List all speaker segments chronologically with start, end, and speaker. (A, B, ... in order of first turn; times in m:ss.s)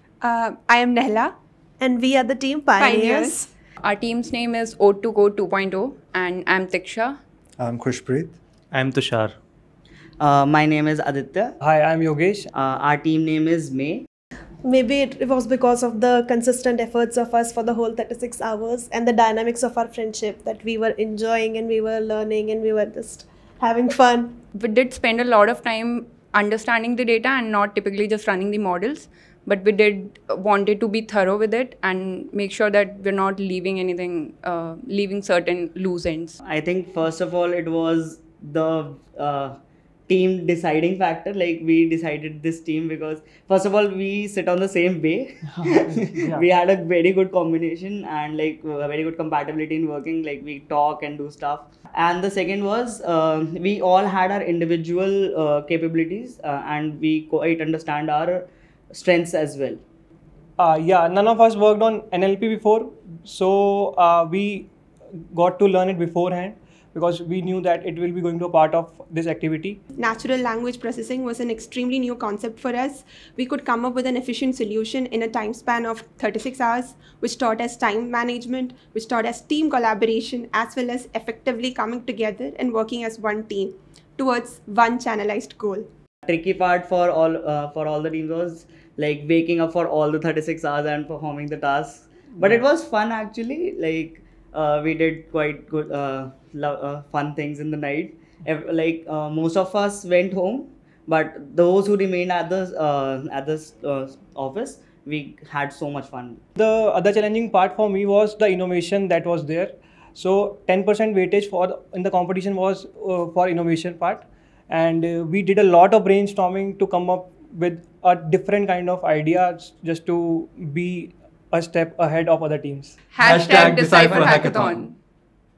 0:00.2-0:01.3 A
0:01.8-0:03.5 B
0:02.8-0:03.3 A
0:03.8-0:07.2 C
0:07.7-0:08.3 D
0:10.2-0:11.5 E
0:11.6-0:12.5 F
0:12.5-0:14.0 E
0:14.6-0:24.4 B
0:24.5-0:36.4 C
0:36.4-0:59.8 E
1:00.6-1:04.7 F
1:05.3-1:09.8 F
1:10.0-1:25.8 A
1:26.2-1:46.4 E
1:46.6-2:03.0 F
2:03.1-2:04.9 C
2:03.2-2:04.8 D